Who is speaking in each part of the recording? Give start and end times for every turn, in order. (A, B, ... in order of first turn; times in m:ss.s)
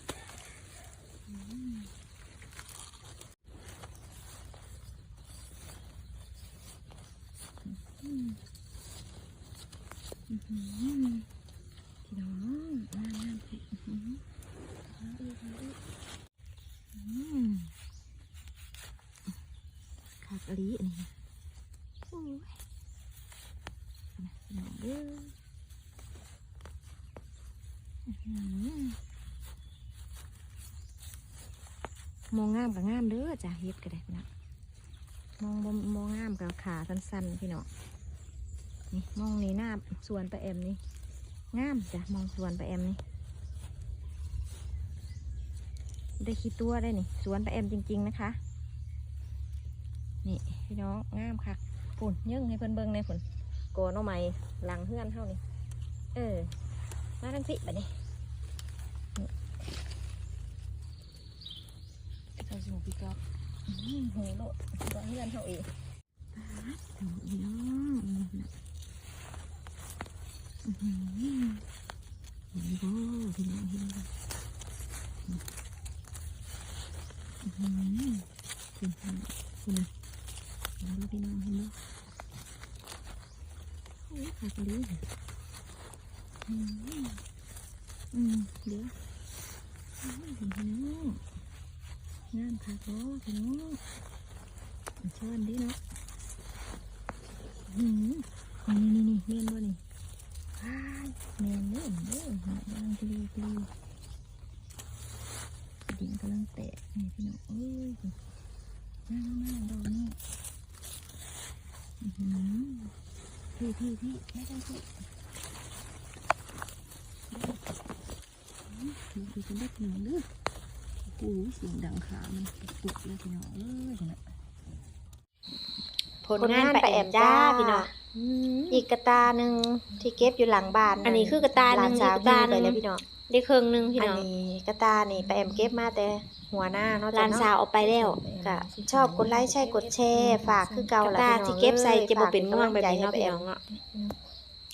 0:01.3-0:01.9 A
0:07.6-0:08.4 A
0:10.3-0:11.2 A
0:12.0-0:14.2 A
0:14.9-0:15.8 A
0:16.9-0:17.7 A
0:20.2-0:21.1 A
0:22.1-0:22.6 A
0:24.2-0:25.3 A
0:28.1-0:29.0 A
0:32.3-0:34.3 A
0:35.4-0:37.7 A
0:38.9-0:40.8 A
0:41.5-0:43.0 A
0:46.2-0:48.4 A
0:50.2-0:53.2 A
0:53.7-0:55.4 A
0:56.1-0:56.5 A
0:57.2-0:57.9 A
1:02.4-1:05.7 A
1:06.3-1:08.5 A
1:10.6-1:11.6 A
1:12.5-1:14.1 A
1:17.4-1:18.3 A
1:18.8-1:19.9 A
1:20.8-1:21.7 A
1:24.1-1:25.0 A
1:26.4-1:27.2 A
1:28.1-1:28.9 A
1:30.0-1:31.2 A
1:32.3-1:33.8 A
1:35.0-1:35.8 A
1:37.7-1:39.8 A
1:40.6-1:43.7 A
1:45.8-1:48.1 A
1:49.1-1:50.2 A
1:52.0-1:52.9 A
1:53.6-1:54.9 A
1:57.3-1:57.6 A
1:58.7-2:00.3 A
2:01.0-2:04.2 A
2:06.2-2:07.9 B
2:06.4-2:07.9 C
2:08.1-2:08.7 A
2:08.7-2:13.0 C
2:09.9-2:12.2 A
2:11.0-2:14.3 B
2:14.0-2:17.5 C
2:15.2-2:15.7 A
2:17.1-2:18.2 B
2:17.8-2:21.0 A
2:18.4-2:23.5 C
2:21.0-2:23.6 B
2:23.7-2:24.1 A